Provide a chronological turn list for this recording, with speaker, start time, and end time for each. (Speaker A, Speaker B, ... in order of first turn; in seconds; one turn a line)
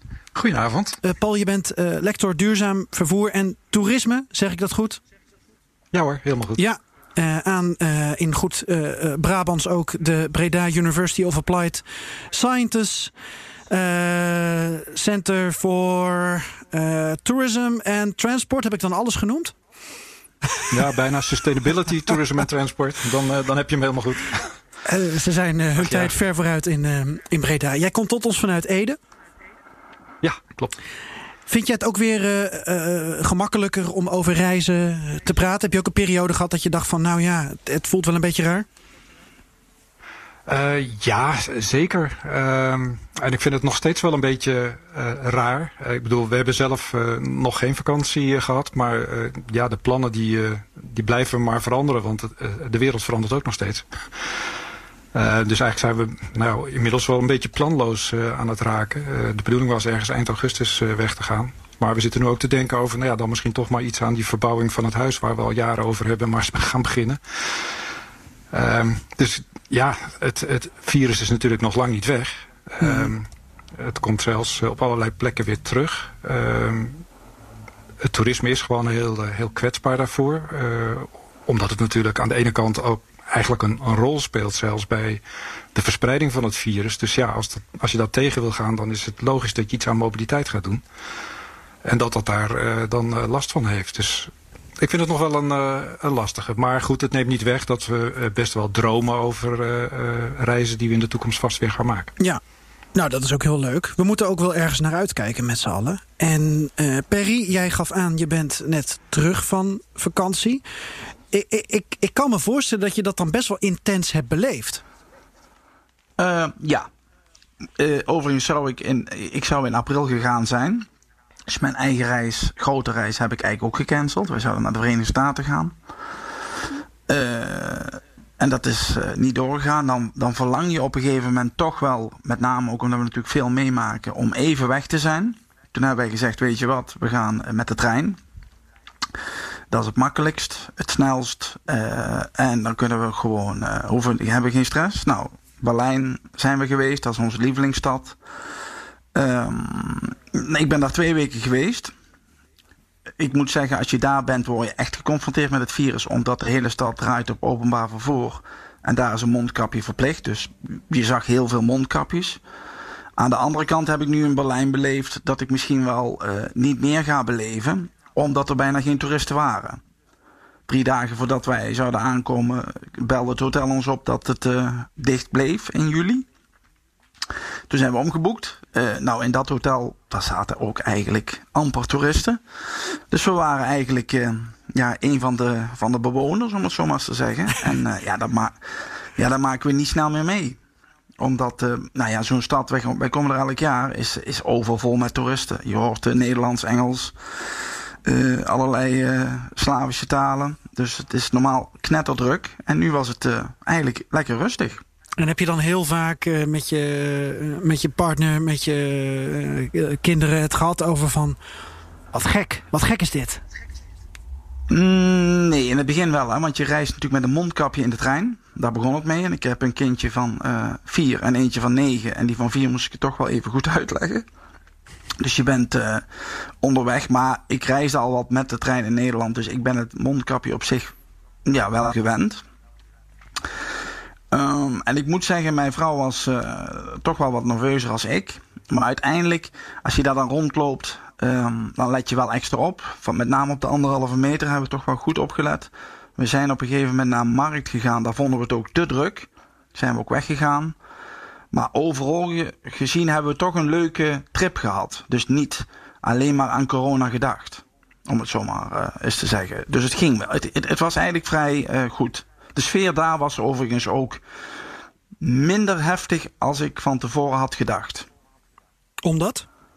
Speaker A: 0.3-1.0
Speaker B: 1.0-5.0
Speaker A: 5.9-6.6
Speaker B: 6.6-13.1
Speaker B: 13.7-19.5
Speaker A: 20.7-24.5
Speaker B: 24.9-29.0
Speaker A: 25.8-26.1
Speaker A: 30.2-30.8
Speaker B: 31.5-38.7
Speaker A: 40.5-54.3
Speaker A: 55.1-67.7
Speaker A: 68.5-77.0
Speaker B: 72.8-73.1
Speaker A: 78.0-85.2
Speaker A: 85.7-90.8
Speaker A: 91.8-102.1
Speaker B: 103.0-110.6
Speaker B: 111.3-114.8
Speaker C: 116.2-116.9
Speaker C: 117.8-120.9
Speaker C: 121.5-125.8
Speaker C: 127.1-138.2
Speaker C: 139.7-148.2
Speaker C: 149.2-151.9
Speaker C: 153.2-162.4
Speaker C: 163.2-169.8
Speaker C: 170.7-176.3
Speaker C: 177.7-182.4
Speaker C: 183.1-188.6
Speaker C: 189.2-190.6
Speaker C: 191.2-197.2
Speaker C: 198.0-204.8
Speaker B: 205.2-211.4
Speaker B: 212.1-213.4
Speaker C: 214.7-224.3
Speaker C: 225.2-226.1
Speaker C: 226.6-230.9
Speaker C: 231.5-232.4
Speaker C: 234.3-250.8
Speaker C: 251.5-264.2
Speaker C: 265.2-268.1
Speaker B: 269.0-269.5